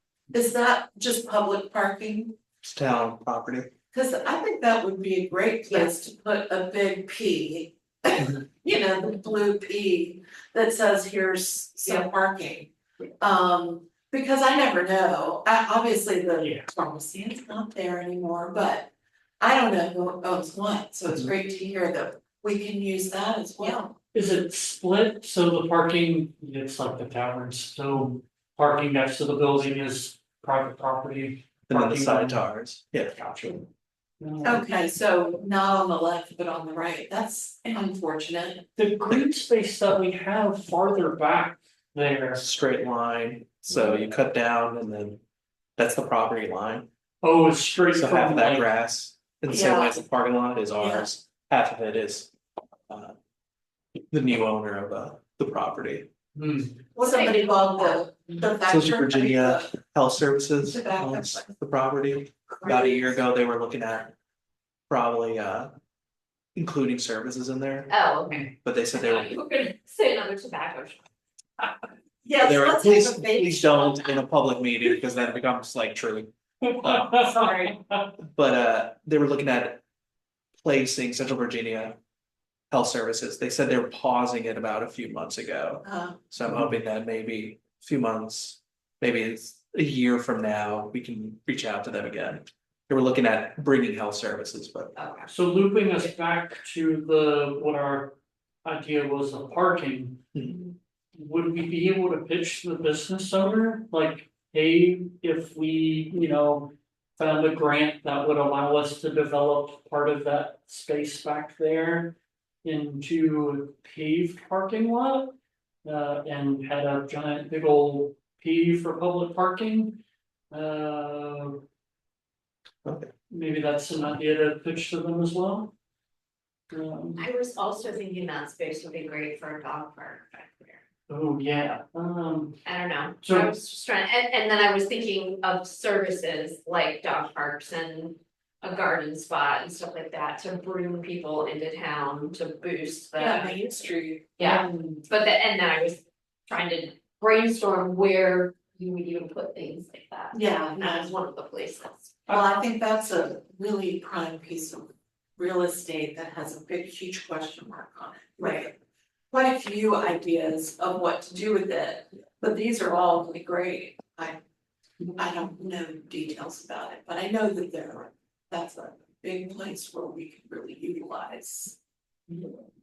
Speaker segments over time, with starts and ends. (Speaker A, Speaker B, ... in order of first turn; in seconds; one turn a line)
Speaker A: 0.3-2.3
Speaker B: 2.6-3.7
Speaker A: 3.9-12.7
Speaker A: 13.2-18.9
Speaker C: 16.4-16.6
Speaker A: 19.4-23.9
Speaker C: 24.1-32.5
Speaker B: 31.7-33.4
Speaker C: 33.2-33.6
Speaker C: 34.2-34.6
Speaker A: 34.4-38.6
Speaker C: 38.8-42.4
Speaker B: 42.4-45.2
Speaker B: 45.8-46.9
Speaker C: 47.2-48.7
Speaker B: 47.9-52.3
Speaker A: 49.5-50.0
Speaker A: 50.8-51.1
Speaker B: 52.9-53.1
Speaker B: 54.1-56.1
Speaker C: 56.3-56.8
Speaker A: 56.9-59.7
Speaker D: 57.0-58.4
Speaker B: 58.7-64.1
Speaker A: 60.6-61.5
Speaker A: 62.5-62.8
Speaker D: 62.7-62.9
Speaker B: 64.9-65.7
Speaker B: 66.5-67.9
Speaker D: 67.9-71.0
Speaker B: 68.6-69.3
Speaker A: 72.2-73.9
Speaker B: 72.4-76.3
Speaker C: 76.6-78.1
Speaker B: 76.8-77.1
Speaker A: 77.1-77.7
Speaker B: 78.3-79.8
Speaker B: 80.6-82.0
Speaker B: 82.7-94.9
Speaker A: 85.8-86.2
Speaker C: 86.5-86.7
Speaker D: 95.0-95.3
Speaker C: 95.3-100.2
Speaker C: 101.1-120.0
Speaker C: 120.5-121.6
Speaker B: 122.8-123.1
Speaker C: 123.3-125.7
Speaker C: 126.7-127.2
Speaker D: 127.2-130.8
Speaker C: 131.1-132.6
Speaker D: 132.6-143.6
Speaker C: 133.2-133.5
Speaker A: 143.2-144.4
Speaker D: 144.4-152.2
Speaker C: 144.4-145.0
Speaker A: 150.3-151.1
Speaker A: 152.3-158.8
Speaker D: 158.4-158.7
Speaker A: 159.3-164.4
Speaker A: 165.2-171.8
Speaker C: 172.3-172.6